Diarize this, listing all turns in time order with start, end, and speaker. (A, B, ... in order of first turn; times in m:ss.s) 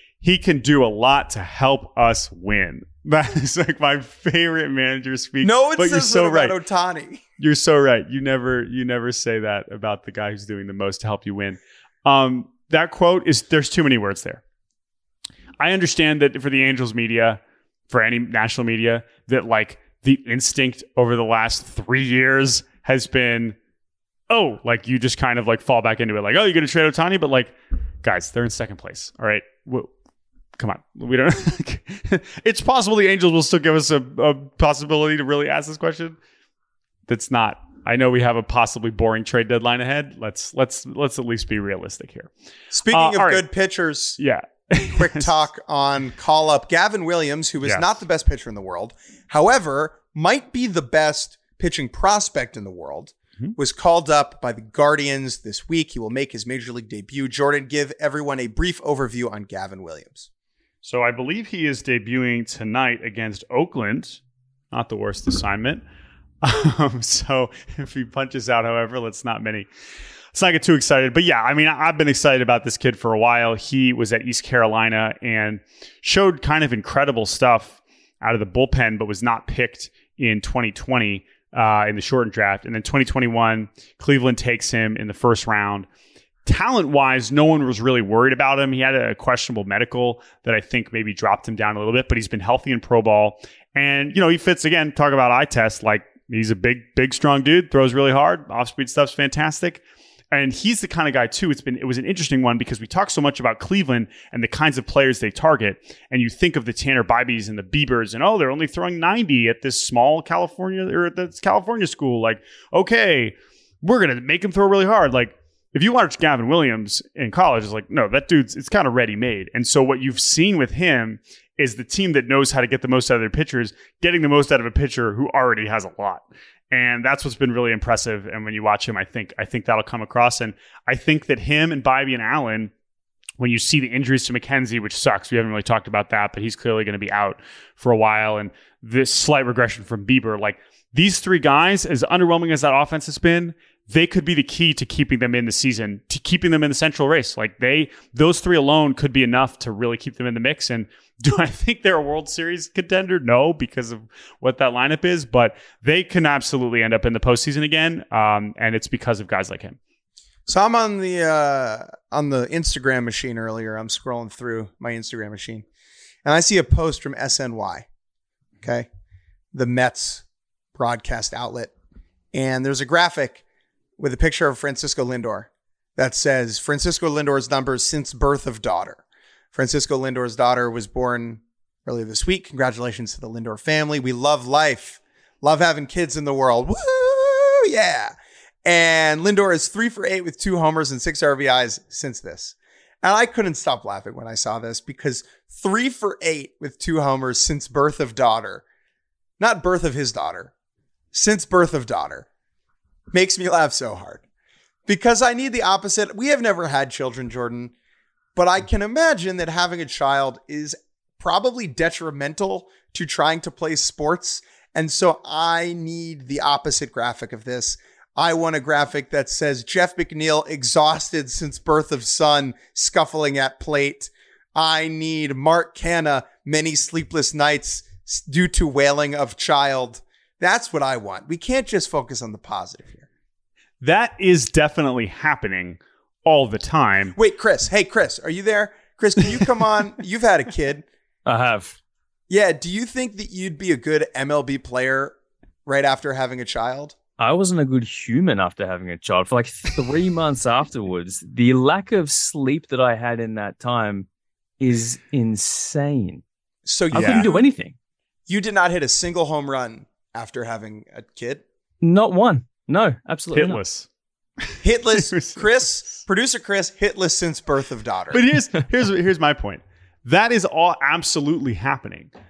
0:00.2-0:06.6 A
0:05.4-0:07.2 B
0:07.4-0:14.4 A
0:15.6-0:23.6 A
0:24.3-0:29.9 A
0:30.6-0:36.2 A
0:37.1-0:42.3 A
0:42.7-0:44.2 B
0:42.9-0:43.4 A
0:44.2-0:45.4 A
0:44.9-1:00.3 B
0:47.6-0:47.9 A
1:00.8-1:04.2 A
1:04.7-1:05.8 A
1:06.4-1:09.7 A
1:10.3-1:25.9 A
1:26.4-2:12.7 A
2:13.4-2:39.8 A
2:40.5-2:45.6 B
2:46.2-2:47.9 B
2:48.6-2:48.9 B
2:49.5-2:51.7 B
2:52.3-2:53.4 B
2:54.0-2:59.0 B
2:59.5-3:18.6 B
3:19.4-3:20.5 B
3:21.1-3:22.3 B
3:23.1-3:24.2 B
3:24.9-3:27.7 B
3:28.4-3:53.1 B
3:53.8-3:57.2 A
3:57.1-4:00.8 B
4:01.2-4:01.8 C
4:02.3-4:06.9 B
4:07.2-4:14.1 C
4:14.6-4:16.2 C
4:16.6-4:17.4 B
4:16.9-4:17.7 C
4:16.9-4:17.3 A
4:18.3-4:21.4 B
4:21.8-4:23.6 C
4:23.3-4:23.9 A
4:24.6-4:28.2 B
4:24.9-4:25.4 A
4:28.1-4:32.1 A